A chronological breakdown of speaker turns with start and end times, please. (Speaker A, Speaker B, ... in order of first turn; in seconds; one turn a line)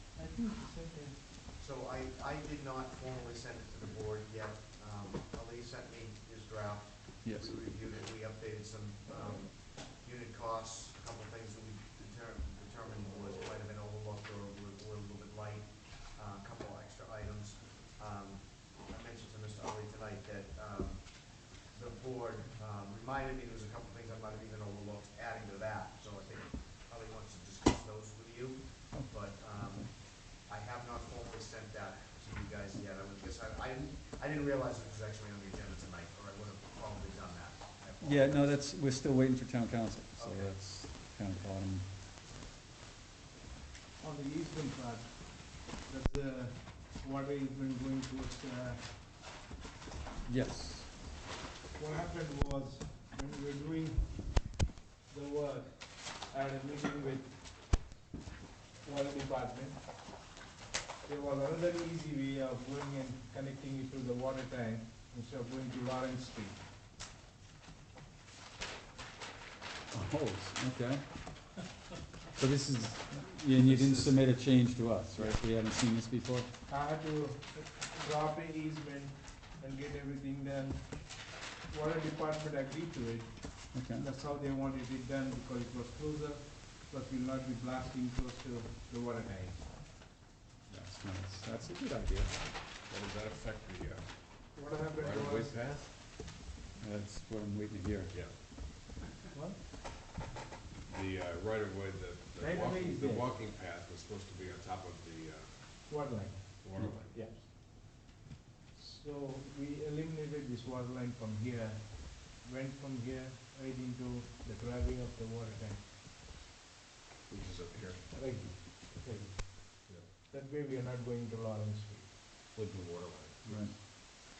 Speaker A: 0.1-1.2
Speaker B: 1.6-38.7
Speaker C: 7.2-7.6
Speaker C: 28.9-29.9
Speaker C: 38.0-41.9
Speaker B: 40.2-40.5
Speaker A: 44.0-49.0
Speaker C: 50.2-51.0
Speaker A: 51.7-54.5
Speaker A: 55.1-57.8
Speaker A: 58.8-59.9
Speaker A: 61.0-66.6
Speaker C: 69.9-71.1
Speaker C: 72.3-76.5
Speaker A: 76.7-89.8
Speaker C: 83.7-84.1
Speaker C: 90.7-92.4
Speaker D: 92.8-96.0
Speaker A: 94.5-95.7
Speaker C: 96.8-98.1
Speaker D: 98.1-98.3
Speaker A: 99.3-99.6
Speaker D: 100.8-106.1
Speaker A: 102.4-103.3
Speaker A: 105.9-107.5
Speaker D: 106.6-107.3
Speaker A: 108.7-115.9
Speaker D: 117.3-118.3
Speaker A: 118.1-122.3
Speaker D: 122.5-123.4
Speaker A: 123.4-123.8
Speaker C: 123.5-123.7